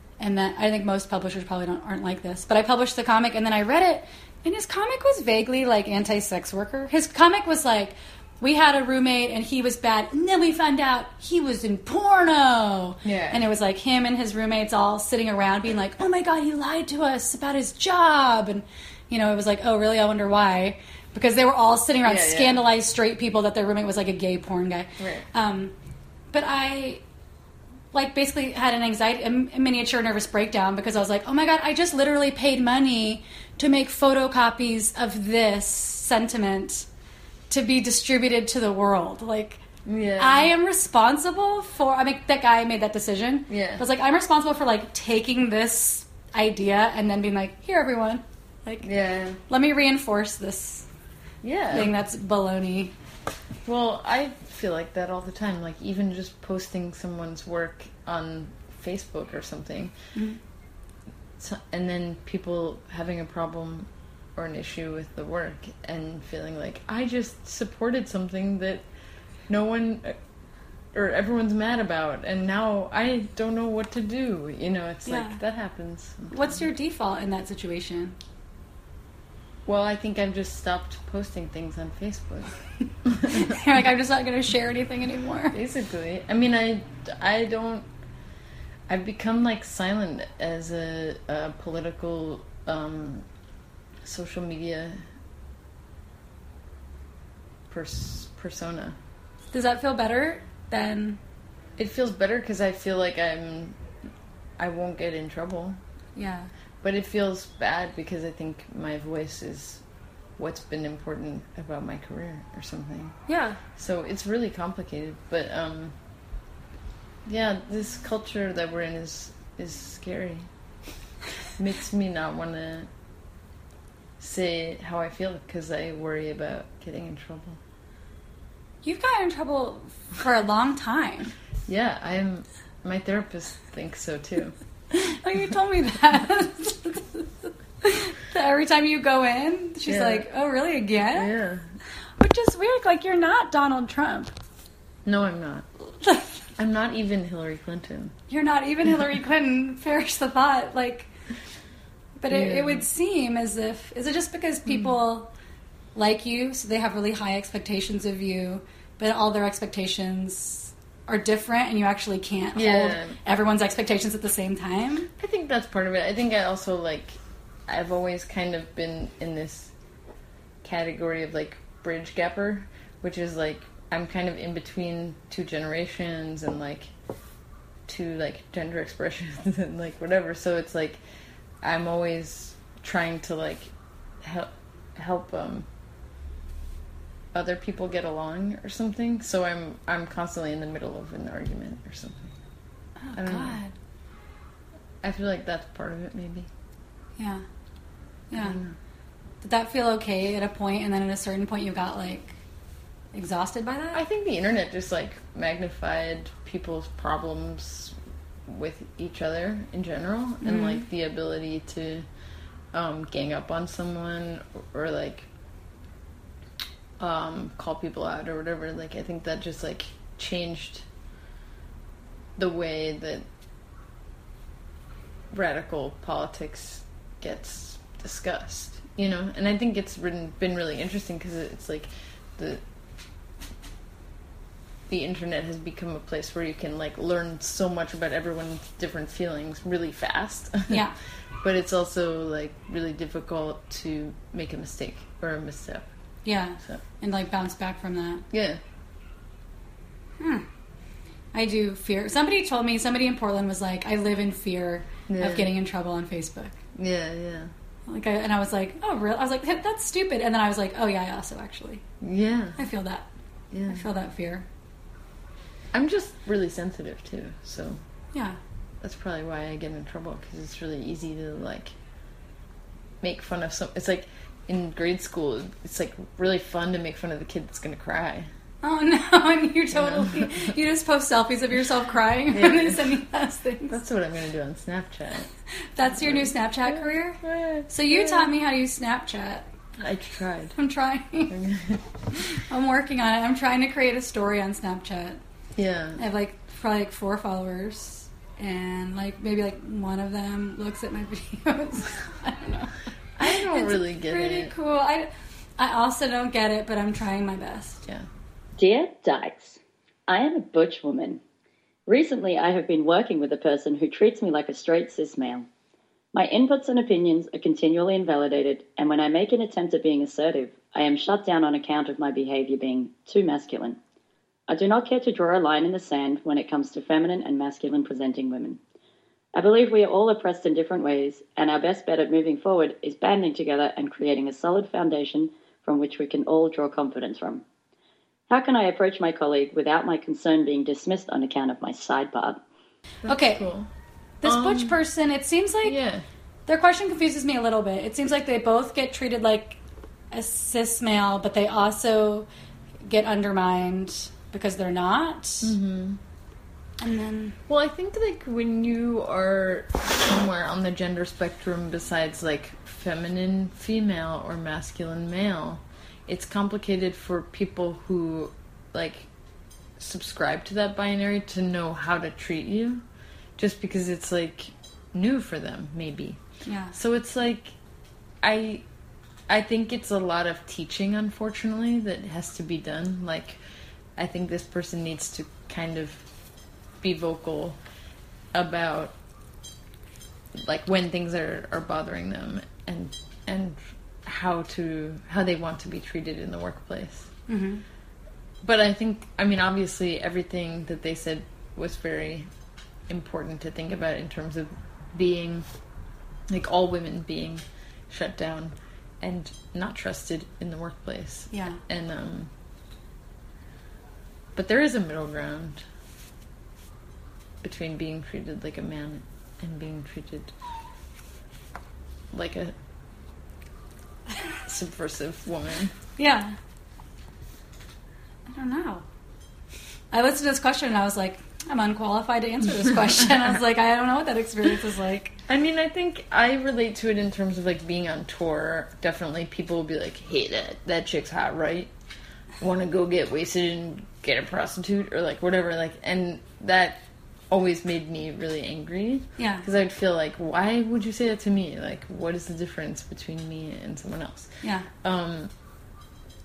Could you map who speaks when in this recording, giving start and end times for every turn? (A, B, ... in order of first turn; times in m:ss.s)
0:00.2-0:25.7 A
0:13.0-0:13.4 B
0:22.0-0:22.6 B
0:25.0-0:25.3 B
0:26.3-0:27.0 A
0:27.9-0:36.9 A
0:37.5-0:39.6 A
0:39.8-0:40.5 B
0:40.2-0:48.9 A
0:43.5-0:43.8 B
0:48.8-0:49.4 B
0:49.5-0:50.9 A
0:51.4-0:51.9 B
0:51.7-0:52.9 A
0:53.6-0:59.9 B
1:01.4-1:08.8 B
1:09.5-1:10.2 B
1:10.9-1:16.6 B
1:15.0-1:15.4 A
1:16.3-1:18.2 A
1:19.7-1:23.6 B
1:23.3-1:25.6 A
1:25.5-1:27.9 B
1:28.9-1:33.3 B
1:34.0-1:35.0 B
1:37.7-1:39.0 B
1:39.5-1:41.2 A
1:41.8-1:43.8 B
1:44.6-1:45.8 B
1:46.2-1:46.5 A
1:46.8-1:49.8 B
1:50.4-1:53.2 B
1:53.3-1:53.6 A
1:53.7-1:56.0 B
1:57.2-2:00.5 B
2:01.6-2:02.9 B
2:04.2-2:07.6 B
2:08.8-2:11.3 A
2:11.7-2:14.6 B
2:14.9-2:21.3 A
2:19.9-2:20.3 B
2:21.1-2:21.7 B
2:22.2-2:24.3 A
2:25.0-2:25.7 B
2:26.0-2:26.3 A
2:26.6-2:28.1 B
2:28.3-2:31.1 A
2:32.2-2:35.3 A
2:32.3-2:32.8 B
2:36.0-2:45.1 A
2:42.5-2:43.2 B
2:45.2-2:49.7 B
2:50.6-2:56.9 B
2:57.9-3:01.0 B
3:01.6-3:05.7 B
3:07.3-3:12.3 B
3:13.0-3:13.7 A
3:13.1-3:13.6 B
3:15.0-3:16.5 B
3:17.2-3:17.4 A
3:18.3-3:18.6 A
3:18.3-3:18.8 B
3:19.4-3:22.4 A
3:23.1-3:24.0 A
3:23.9-3:28.0 B
3:28.5-3:32.0 B
3:30.4-3:30.9 A
3:32.7-3:35.3 B
3:37.0-3:40.9 B
3:42.4-3:43.3 B
3:45.3-3:52.6 B
3:54.9-4:00.9 B
4:00.7-4:01.0 A
4:01.4-4:05.9 B
4:06.2-4:08.2 A
4:08.3-4:08.6 B
4:10.2-4:10.4 A
4:11.3-4:16.6 A
4:15.1-4:15.5 B
4:16.7-4:17.5 B
4:17.9-4:21.8 A
4:22.0-4:22.6 B
4:22.6-4:23.1 A
4:23.5-4:23.8 B
4:23.7-4:24.4 A
4:25.7-4:27.8 B
4:28.1-4:28.4 A
4:28.8-4:31.7 B
4:33.0-4:38.3 B
4:38.6-4:43.7 A
4:39.7-4:40.5 B
4:42.3-4:43.0 B
4:43.6-4:45.3 B
4:45.7-4:49.4 A
4:45.9-4:48.4 B
4:49.8-4:50.6 B
4:50.6-4:51.3 A
4:51.3-4:51.8 B
4:52.1-4:55.2 A
4:55.6-4:56.0 B
4:56.0-5:07.8 A
5:03.2-5:04.5 B
5:08.6-5:11.2 C
5:11.9-5:15.5 C
5:16.1-5:23.8 C
5:24.5-5:28.6 C
5:29.3-5:37.4 C
5:38.3-5:42.4 C
5:43.0-5:43.7 B
5:43.1-5:43.4 A
5:44.2-5:45.8 A
5:44.2-5:44.8 B
5:45.6-5:46.0 B
5:46.5-5:49.6 A
5:50.1-5:52.3 A
5:52.8-5:55.6 A
5:55.4-5:56.0 B
5:56.8-5:57.4 A
5:57.5-6:09.1 B
6:09.8-6:12.8 B
6:13.4-6:16.2 B
6:16.4-6:16.7 A
6:16.7-6:17.5 B
6:18.2-6:18.6 B
6:19.3-6:23.4 B
6:24.0-6:26.0 B
6:26.8-6:27.6 B
6:28.3-6:29.0 B
6:30.4-6:37.1 B
6:37.3-6:37.6 A
6:38.4-6:42.3 B
6:42.9-6:45.4 B
6:46.3-6:52.3 B
6:51.3-6:51.6 A
6:54.3-6:55.6 B
6:57.4-7:00.3 B
7:02.1-7:02.6 B
7:04.4-7:05.7 B
7:06.0-7:06.4 A
7:08.3-7:08.8 A
7:09.9-7:15.1 A
7:15.3-7:21.7 B
7:22.4-7:34.3 B
7:29.2-7:29.4 A
7:34.4-7:34.7 A
7:34.8-7:35.3 B